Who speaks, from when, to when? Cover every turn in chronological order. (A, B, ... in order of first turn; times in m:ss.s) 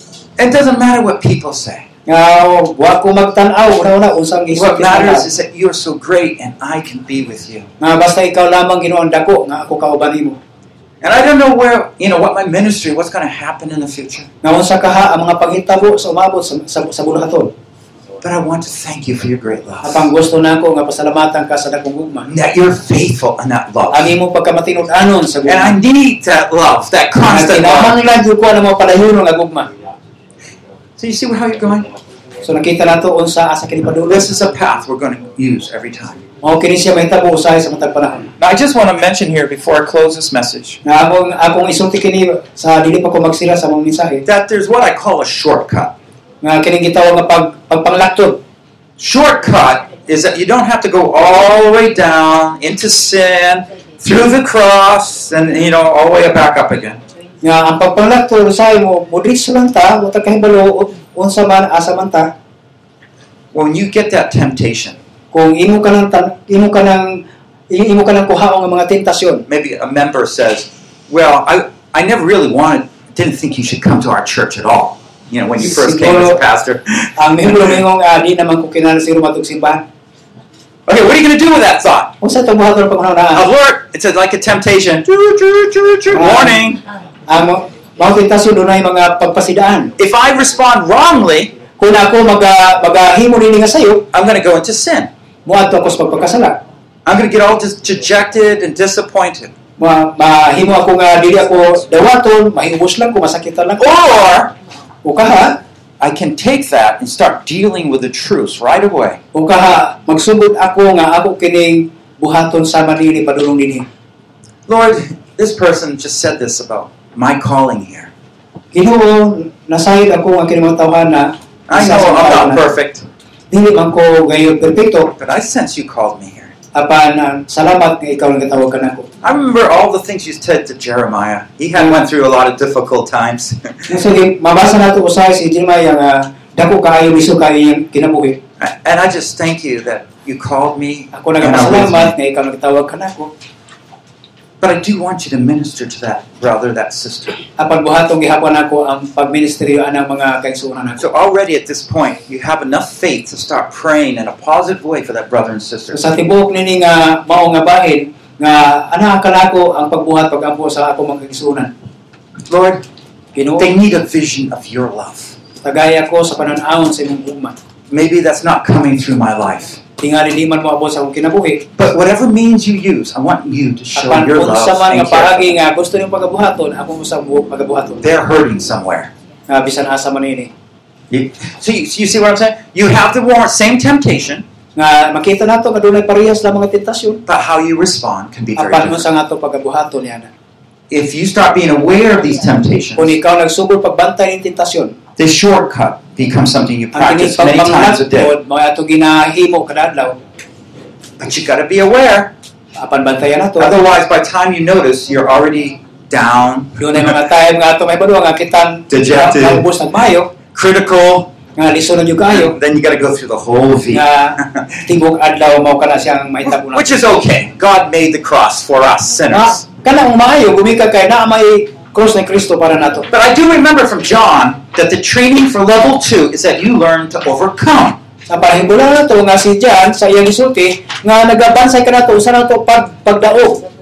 0:00.4-0:01.9 A
0:02.0-0:05.3 B
0:04.5-0:07.7 A
0:07.8-0:10.4 B
0:11.0-0:14.3 A
0:14.4-0:17.5 B
0:18.2-0:20.1 A
0:19.8-0:22.3 B
0:22.2-0:24.1 A
0:23.9-0:25.8 B
0:25.4-0:28.0 A
0:27.2-0:29.7 B
0:31.0-0:31.9 A
0:32.4-0:34.3 B
0:34.1-0:36.2 A
0:36.4-0:38.3 B
0:38.4-0:40.8 A
0:40.8-0:44.2 B
0:44.2-0:45.9 A
0:46.4-0:48.4 B
0:49.0-0:57.0 A
0:57.4-1:02.3 B
1:03.5-1:05.0 A
1:05.3-1:09.4 B
1:09.5-1:17.7 A
1:15.6-1:16.4 B
1:17.2-1:19.8 B
1:20.9-1:22.1 A
1:22.2-1:23.4 B
1:23.3-1:26.8 A
1:26.1-1:26.6 B
1:27.3-1:29.9 B
1:30.0-1:31.5 A
1:31.8-1:34.0 B
1:34.1-1:35.1 A
1:35.4-1:36.6 B
1:37.0-1:39.5 A
1:39.8-1:43.9 B
1:43.8-1:44.5 A
1:45.0-1:45.6 B
1:46.0-1:49.2 A
1:49.3-1:53.9 B
1:54.7-1:58.1 A
1:58.7-2:02.6 B
2:01.7-2:03.0 A
2:03.5-2:05.1 B
2:05.2-2:06.5 A
2:06.7-2:09.1 B
2:09.2-2:13.9 A
2:13.9-2:18.4 B
2:18.6-2:22.1 A
2:21.1-2:23.3 B
2:24.6-2:27.4 A
2:27.6-2:31.0 B
2:31.0-2:36.0 A
2:35.9-2:41.7 B
2:42.5-2:42.8 A
2:43.3-2:43.7 B
2:43.6-2:45.4 A
2:45.6-2:47.6 B
2:47.9-2:49.8 A
2:50.0-2:51.7 B
2:51.8-2:55.5 A
2:53.9-2:58.0 B
2:58.0-2:59.1 A
2:59.5-3:00.5 B
3:01.1-3:04.4 A
3:04.8-3:07.2 B
3:07.3-3:09.1 A
3:08.6-3:10.3 B
3:10.9-3:13.1 A
3:13.0-3:15.0 B
3:15.2-3:18.3 A
3:16.9-3:20.2 B
3:21.2-3:22.3 A
3:22.8-3:23.7 B
3:23.6-3:27.1 A
3:26.8-3:30.3 B
3:28.9-3:29.6 A
3:30.5-3:31.3 A
3:31.6-3:32.5 B
3:32.3-3:34.8 A
3:33.9-3:37.2 B
3:36.4-3:39.6 A
3:39.3-3:43.1 B
3:43.1-3:48.0 A
3:48.3-3:53.6 B